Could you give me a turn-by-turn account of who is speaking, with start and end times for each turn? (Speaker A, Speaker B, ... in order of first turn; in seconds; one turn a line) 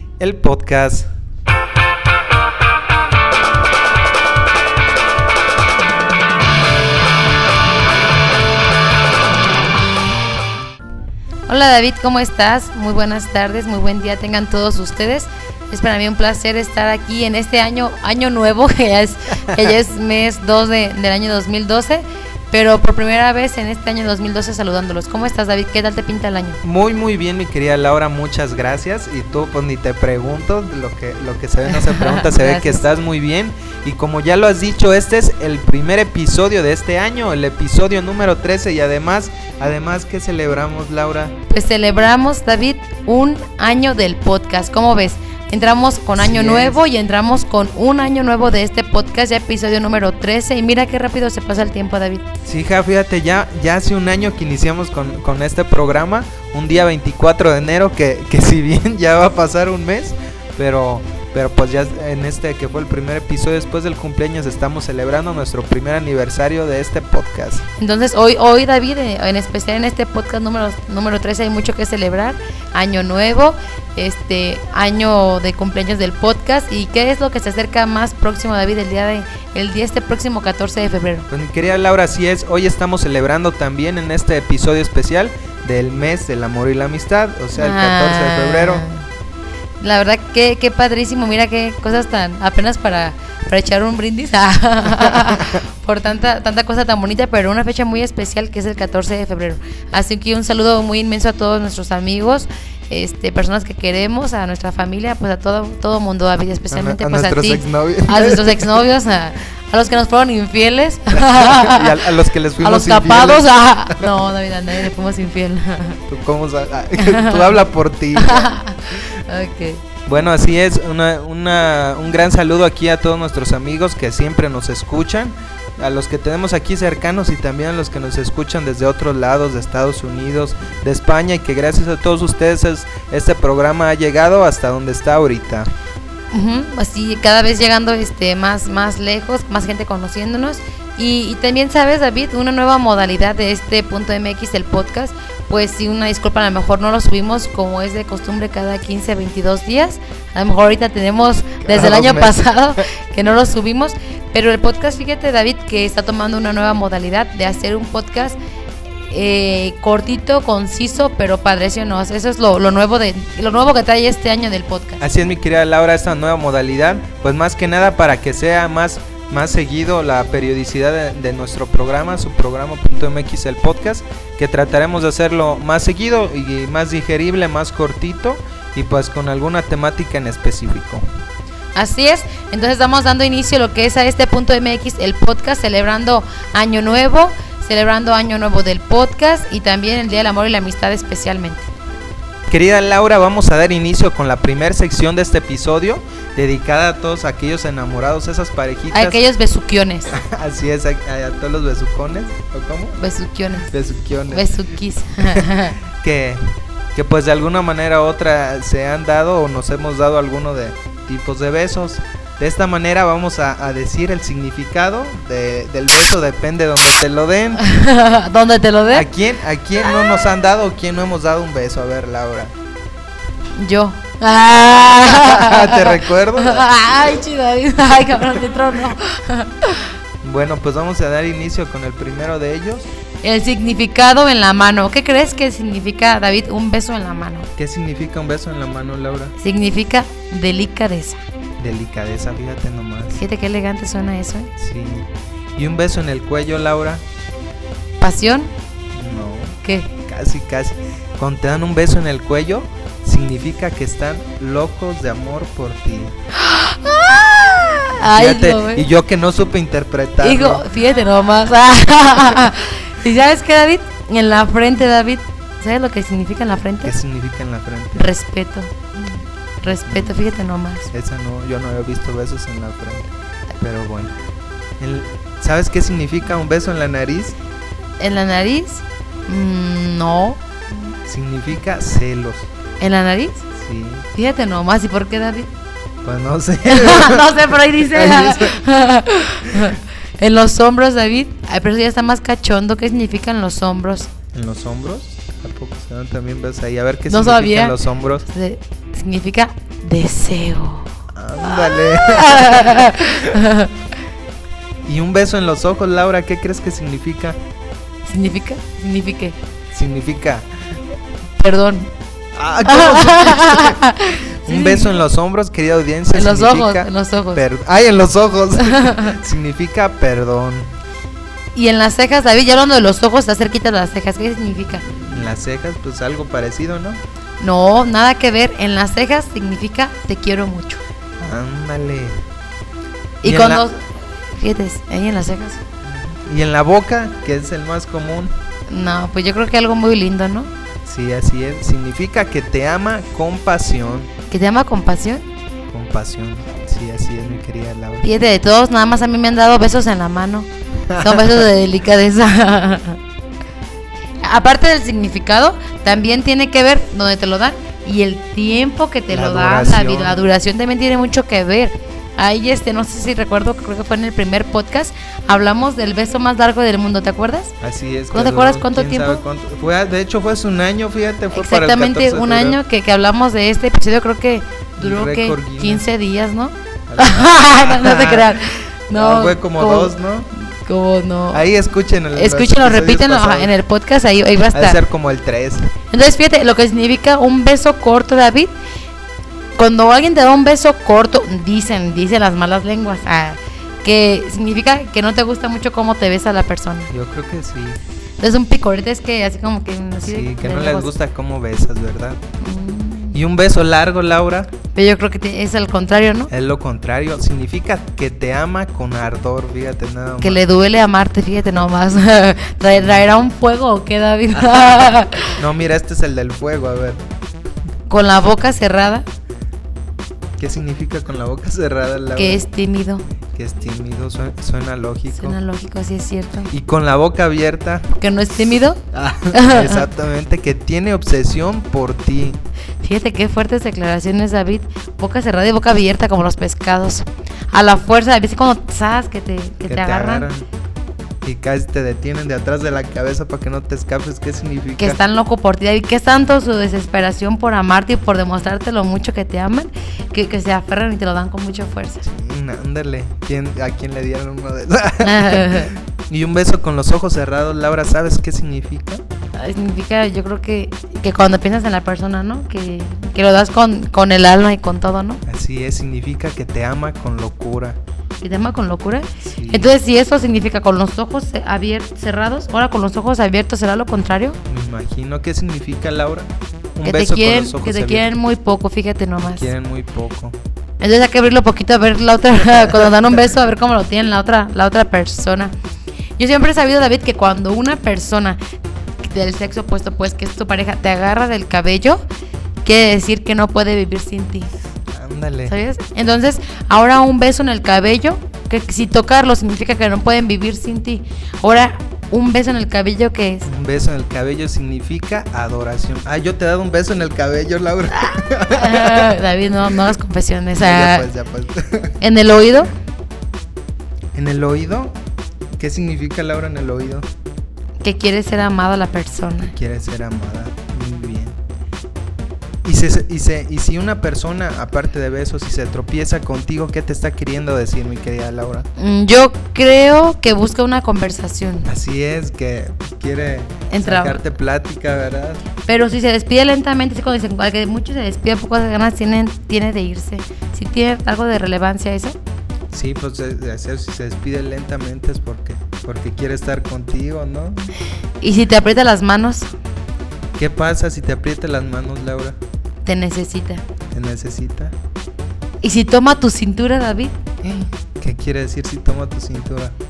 Speaker A: 0.2-1.1
Speaker B: 11.5-26.6
Speaker A: 26.6-41.4
Speaker B: 31.7-32.8
Speaker B: 41.5-52.2
Speaker A: 46.2-46.8
Speaker A: 52.5-67.6
Speaker B: 67.8-81.3
Speaker A: 81.3-88.8
Speaker B: 87.5-89.0
Speaker B: 89.8-112.0
Speaker A: 106.7-108.8
Speaker A: 111.1-114.1
Speaker B: 112.6-116.0
Speaker A: 116.1-118.5
Speaker B: 117.0-117.6
Speaker B: 118.2-119.8
Speaker A: 120.0-135.7
Speaker B: 136.3-158.4
Speaker A: 151.6-152.4
Speaker B: 159.0-165.0
Speaker A: 165.0-181.0
Speaker B: 181.7-191.7
Speaker A: 192.5-199.2
Speaker B: 198.9-200.1
Speaker A: 200.1-203.0
Speaker B: 203.0-203.7
Speaker A: 203.7-204.6
Speaker B: 204.3-205.8
Speaker A: 205.2-217.6
Speaker B: 217.6-219.1
Speaker A: 218.9-222.5
Speaker B: 223.6-229.9
Speaker A: 225.0-226.8
Speaker A: 230.2-232.9
Speaker B: 233.2-237.5
Speaker A: 237.6-239.3
Speaker B: 239.4-241.2
Speaker A: 241.6-243.2
Speaker B: 243.1-244.5
Speaker A: 244.6-247.0
Speaker B: 248.0-248.5
Speaker A: 248.9-256.1
Speaker B: 249.6-249.9
Speaker B: 256.3-258.9
Speaker A: 258.0-260.7
Speaker B: 260.2-266.9
Speaker A: 266.8-268.1
Speaker B: 267.9-268.7
Speaker B: 269.6-270.9
Speaker A: 269.7-270.2
Speaker A: 270.9-274.1
Speaker A: 274.8-277.4
Speaker B: 278.0-280.4
Speaker A: 281.1-282.5
Speaker B: 282.8-283.4
Speaker A: 283.5-284.1
Speaker B: 284.1-285.5
Speaker A: 286.0-288.6
Speaker B: 286.6-294.1
Speaker A: 294.3-298.2
Speaker B: 297.1-300.9
Speaker A: 301.1-303.3
Speaker B: 301.4-303.8
Speaker A: 304.9-307.4
Speaker B: 308.1-309.4
Speaker A: 309.7-310.5
Speaker B: 311.4-311.9
Speaker A: 312.3-313.8
Speaker B: 312.6-315.0
Speaker A: 314.4-320.7
Speaker B: 316.1-317.4
Speaker B: 318.6-319.2
Speaker B: 321.5-324.9
Speaker A: 325.1-327.0
Speaker B: 327.4-330.8
Speaker A: 331.2-332.2
Speaker A: 333.2-333.6
Speaker B: 333.2-335.6
Speaker A: 335.9-338.3
Speaker B: 338.7-340.5
Speaker A: 340.8-344.1
Speaker B: 344.3-345.3
Speaker A: 345.7-348.1
Speaker B: 348.0-353.0
Speaker A: 350.9-351.4
Speaker B: 354.2-367.5
Speaker A: 359.1-360.2
Speaker A: 367.6-372.6
Speaker B: 368.1-369.2
Speaker B: 371.3-381.4
Speaker A: 374.8-375.9
Speaker A: 376.9-378.4
Speaker A: 378.9-380.3
Speaker A: 381.3-383.5
Speaker B: 382.1-384.8
Speaker A: 384.5-385.7
Speaker B: 385.9-388.6
Speaker B: 389.6-396.9
Speaker A: 396.9-397.8
Speaker B: 398.2-400.9
Speaker A: 400.0-402.2
Speaker B: 402.4-403.2
Speaker A: 403.1-404.5
Speaker B: 404.7-406.3
Speaker A: 406.3-410.4
Speaker B: 410.2-415.4
Speaker A: 412.8-413.1
Speaker A: 415.4-417.0
Speaker B: 417.9-419.1
Speaker A: 420.4-422.4
Speaker B: 422.1-423.0
Speaker A: 423.3-425.4
Speaker B: 425.1-426.5
Speaker A: 426.5-427.9
Speaker B: 427.9-429.9
Speaker A: 428.9-432.4
Speaker B: 432.8-440.3
Speaker A: 439.7-440.5
Speaker A: 441.2-445.0
Speaker B: 444.8-452.0
Speaker A: 452.0-459.0
Speaker B: 455.0-455.7
Speaker B: 459.3-465.2
Speaker A: 465.2-467.8
Speaker B: 468.2-474.4
Speaker A: 469.2-469.7
Speaker A: 474.5-478.1
Speaker B: 476.8-479.5
Speaker A: 479.2-480.4
Speaker B: 480.8-485.5
Speaker B: 486.2-488.4
Speaker B: 489.0-492.0
Speaker B: 492.6-494.5
Speaker A: 494.9-495.6
Speaker B: 495.5-503.5
Speaker A: 503.4-509.2
Speaker B: 508.0-511.1
Speaker A: 510.5-512.0
Speaker B: 512.0-512.7
Speaker A: 514.1-514.9
Speaker A: 515.6-517.0
Speaker B: 517.8-519.5
Speaker A: 519.5-521.4
Speaker A: 522.6-528.7
Speaker B: 528.8-531.7
Speaker A: 531.6-535.4
Speaker B: 533.7-534.2
Speaker B: 535.6-542.2
Speaker A: 542.7-547.7
Speaker B: 548.2-549.5
Speaker A: 550.4-552.4
Speaker B: 552.8-553.6
Speaker A: 553.9-554.7
Speaker B: 555.6-557.2
Speaker A: 557.4-559.7